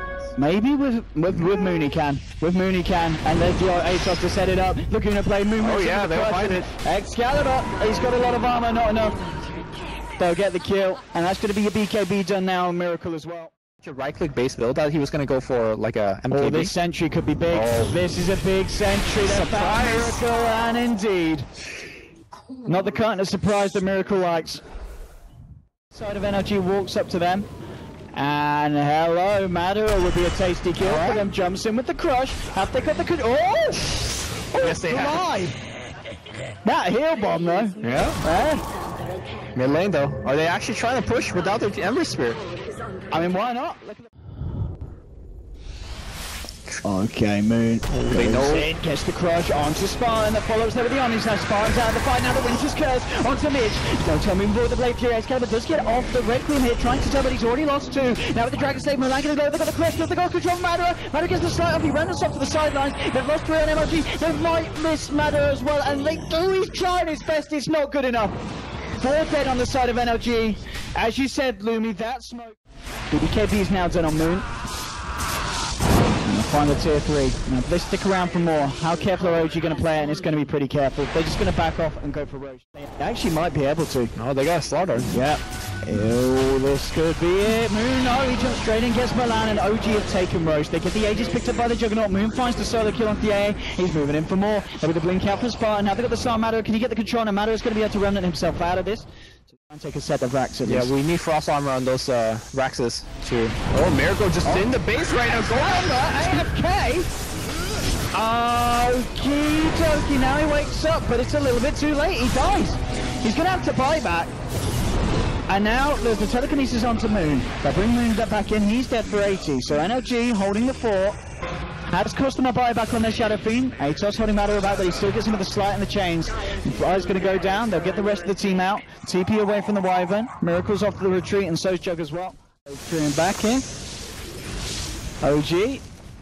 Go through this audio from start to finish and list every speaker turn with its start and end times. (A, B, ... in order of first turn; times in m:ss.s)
0:00.4-0:09.2 A
0:05.6-0:06.7 B
0:10.2-0:13.5 A
0:13.8-0:16.7 B
0:16.3-0:21.5 A
0:17.5-0:17.9 B
0:19.2-0:20.2 B
0:22.6-0:24.6 A
0:25.9-0:27.5 A
0:28.1-0:33.9 A
0:30.8-0:31.2 B
0:34.5-0:35.3 B
0:34.6-0:35.6 A
0:36.6-0:38.6 A
0:37.8-0:38.2 B
0:39.5-0:42.4 B
0:43.1-0:44.1 A
0:46.8-1:08.4 A
0:47.9-0:48.7 B
1:09.0-1:12.6 A
1:13.1-1:14.5 A
1:16.2-1:24.1 A
1:24.2-1:25.1 B
1:25.1-1:39.0 A
1:39.6-1:40.9 A
1:40.6-1:46.0 B
1:44.4-1:44.7 A
1:45.2-1:47.1 A
1:48.1-1:54.3 A
1:55.5-2:01.2 A
2:01.9-2:13.6 A
2:15.2-2:15.8 A